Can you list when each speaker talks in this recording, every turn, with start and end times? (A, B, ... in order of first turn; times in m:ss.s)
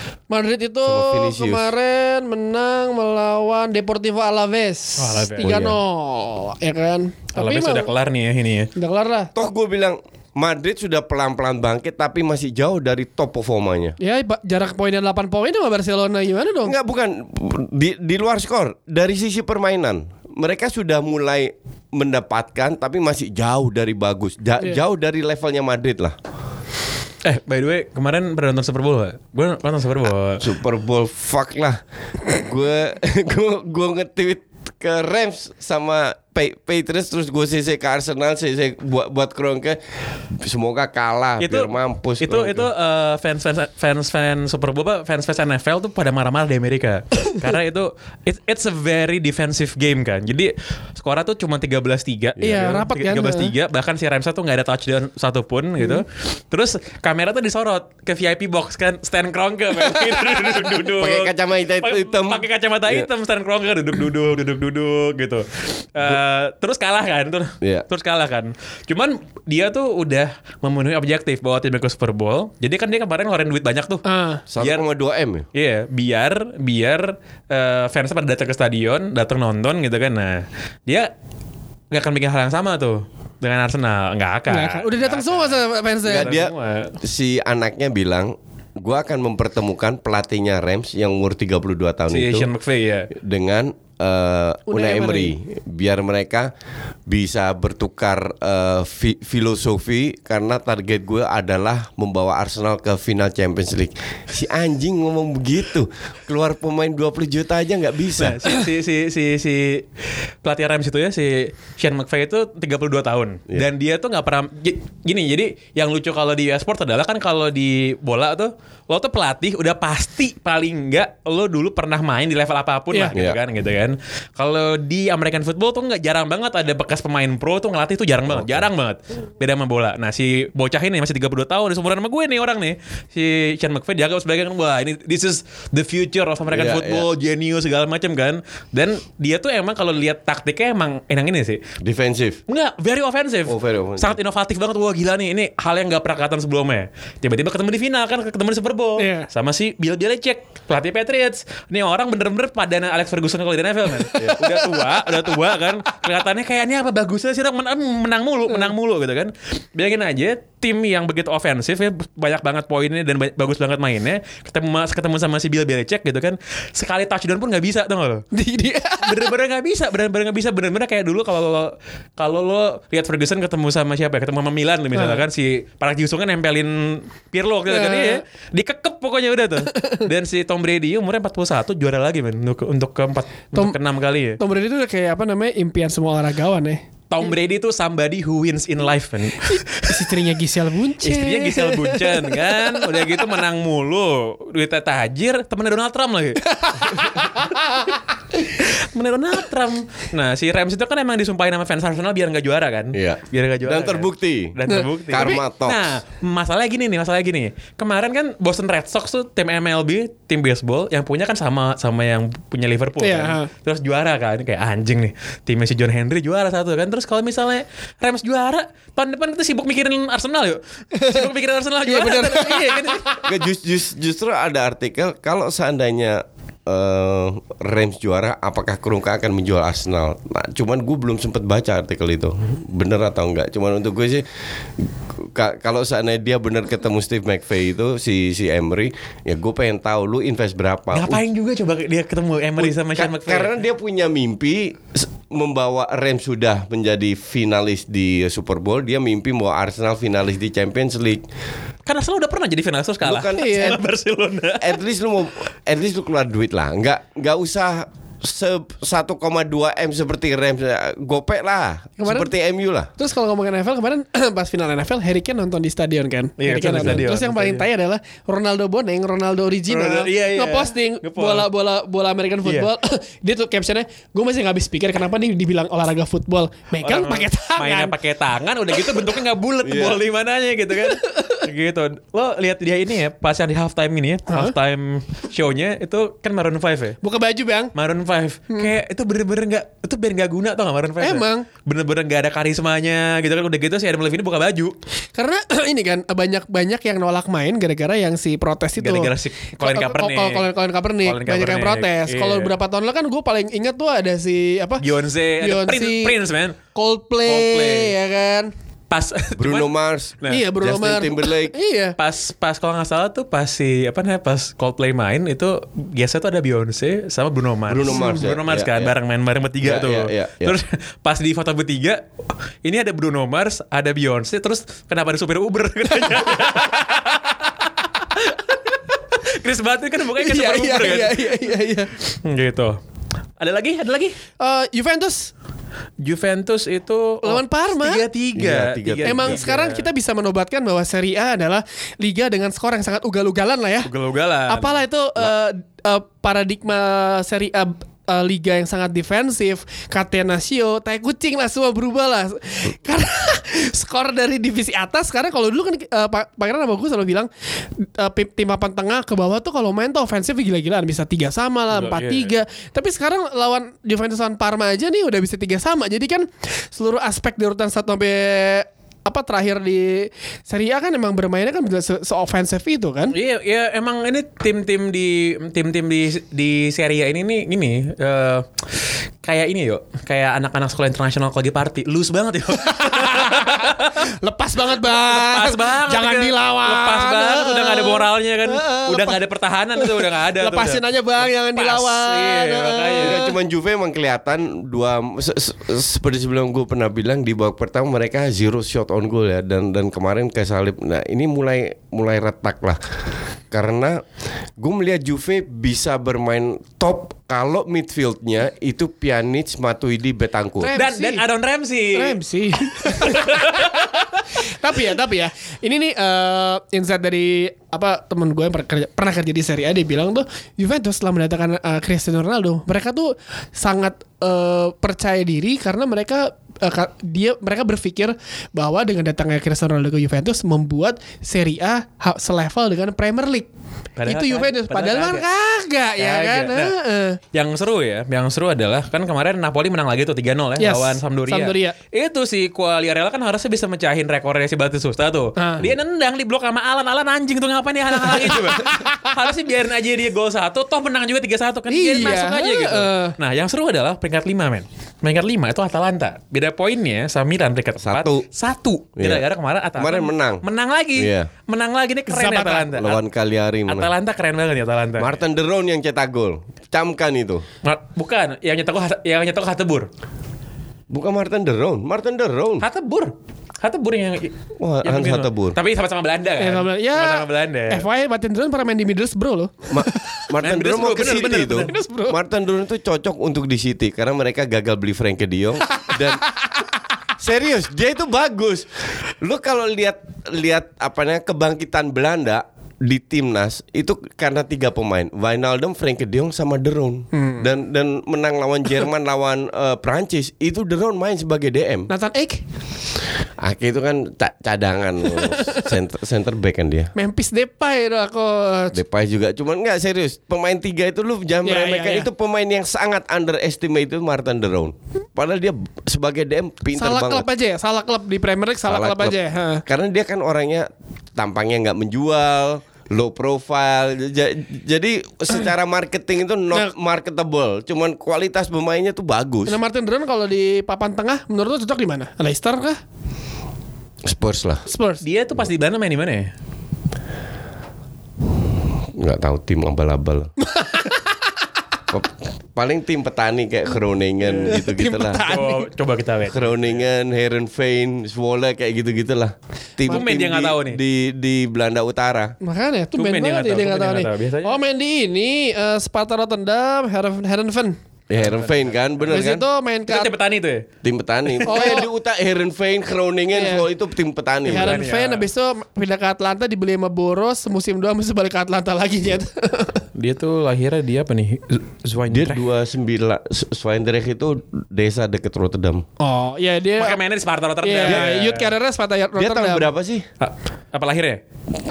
0:00.3-0:07.9 A
0:00.8-0:01.7 B
0:05.0-0:05.6 C
0:05.4-0:05.8 B
0:07.4-0:08.7 C
0:08.7-0:09.3 A
0:09.3-0:14.0 B
0:14.0-0:16.8 A
0:16.6-0:26.2 B
0:27.2-0:30.5 C
0:30.4-0:42.7 B
0:41.4-1:14.0 C
0:52.4-0:53.5 A
0:52.4-0:52.7 B
1:01.0-1:03.1 B
1:14.0-1:14.4 A
1:14.5-1:15.5 B
1:14.6-1:14.8 C
1:15.5-1:21.1 C
1:21.9-1:27.0 C
1:24.5-1:26.3 A
1:26.1-1:32.5 B
1:32.1-1:33.1 C
1:33.1-1:36.5 B
1:34.7-1:35.3 A
1:37.1-1:48.4 B
1:48.2-1:49.9 C
1:50.4-2:21.6 C
2:08.3-2:08.6 B
2:16.5-2:17.1 B
2:21.8-2:22.4 B
2:22.5-2:48.2 C
2:23.5-2:24.2 B
2:29.0-2:29.3 A
2:48.3-2:49.3 A
2:49.0-3:04.4 C
2:54.9-2:55.2 A
2:57.7-2:58.2 A
2:59.7-3:00.1 A
3:04.4-3:07.3 A
3:07.1-3:10.3 C
3:09.5-3:13.2 A
3:11.0-3:17.5 C
3:16.4-3:18.0 A
3:18.5-3:43.2 C
3:22.9-3:25.9 B
3:24.7-3:25.4 A
3:33.0-3:33.5 A
3:40.9-3:41.3 A
3:41.8-3:43.2 A
3:43.2-3:54.2 B
3:54.8-4:01.2 B
4:00.9-4:03.5 C
4:02.6-4:11.2 B
4:11.8-4:14.8 C
4:13.0-4:13.8 B
4:13.3-4:13.8 A
4:14.6-4:22.9 B
4:22.0-4:22.3 A
4:23.0-4:37.9 A
4:26.4-4:27.7 C
4:29.7-4:31.5 C
4:32.4-4:32.7 C
4:36.8-4:47.0 C
4:39.6-4:40.0 B
4:40.8-4:41.4 A
4:44.3-4:44.5 A
4:47.0-4:47.7 A
4:47.7-4:54.8 C
4:51.0-4:51.5 A
4:55.1-5:04.8 A
4:58.8-5:00.5 C
5:01.0-5:02.5 C
5:04.8-5:06.6 C
5:05.4-5:06.2 A
5:06.7-5:08.5 A
5:07.2-5:07.9 C
5:08.9-5:10.5 C
5:09.4-5:11.6 B
5:10.3-5:12.0 A
5:12.0-5:22.0 C
5:17.7-5:18.9 B
5:17.9-5:18.2 A
5:19.6-5:20.6 B
5:22.6-5:31.5 C
5:30.2-5:31.9 A
5:32.2-5:32.8 C
5:33.4-5:34.2 C
5:34.4-5:35.3 A
5:36.0-5:39.9 C
5:37.2-5:38.0 A
5:38.3-5:39.4 B
5:39.0-5:43.9 A
5:43.8-5:44.8 C
5:44.5-6:13.1 A
6:01.7-6:02.3 C
6:13.1-6:24.0 C
6:22.6-6:29.2 A
6:24.7-6:33.2 C
6:29.8-6:33.3 A
6:33.0-6:42.8 B
6:43.5-6:44.0 B
6:44.6-6:50.7 B
6:50.6-6:51.2 A
6:50.7-6:53.9 C
6:51.9-7:13.5 A
7:14.0-7:15.2 C
7:14.0-7:17.2 A
7:16.0-7:16.7 C
7:17.3-7:43.0 C
7:20.6-7:21.8 A
7:25.4-7:25.6 A
7:28.0-7:29.1 A
7:31.7-7:33.2 A
7:37.8-7:38.2 B
7:39.0-7:39.2 B
7:39.8-7:40.4 B
7:40.9-7:41.3 B
7:42.1-7:42.7 A
7:42.7-7:43.9 B
7:43.6-7:45.1 C
7:45.0-7:47.4 B
7:47.6-7:49.9 C
7:50.9-7:52.6 B
7:52.6-7:54.3 C
7:54.6-7:55.6 B
7:54.8-7:57.8 C
7:56.4-8:00.3 A
7:59.7-8:06.2 B
8:00.4-8:01.7 C
8:01.6-8:02.2 A
8:05.7-8:06.6 A
8:07.2-8:21.9 B
8:17.1-8:17.5 A
8:21.9-8:22.4 A
8:23.4-8:26.9 B
8:25.2-8:25.6 A
8:26.9-8:28.8 A
8:28.7-8:37.2 B
8:31.4-8:32.1 A
8:36.7-8:39.6 A
8:38.7-8:49.6 B
8:49.4-8:52.8 A
8:54.0-8:54.7 B
8:54.7-8:55.0 A
8:55.0-8:56.3 C
8:58.9-9:00.3 B
9:00.4-9:01.0 A
9:01.9-9:05.2 B
9:04.3-9:05.7 A
9:05.2-9:06.8 C
9:06.3-9:12.4 B
9:09.8-9:10.8 C
9:12.4-9:17.8 A
9:13.0-9:14.6 C
9:18.1-9:19.4 B
9:18.2-9:19.2 C
9:19.1-9:20.1 A
9:19.9-9:20.7 C
9:20.8-9:24.8 B
9:21.2-9:21.7 C
9:21.4-9:21.9 A
9:23.3-9:23.6 A
9:24.4-9:29.8 A
9:24.5-9:25.2 C
9:29.9-9:32.4 C
9:32.1-9:35.8 B
9:36.0-9:37.0 A
9:36.8-9:38.5 C
9:37.6-9:39.7 A
9:39.2-9:40.0 B
9:40.2-9:41.2 C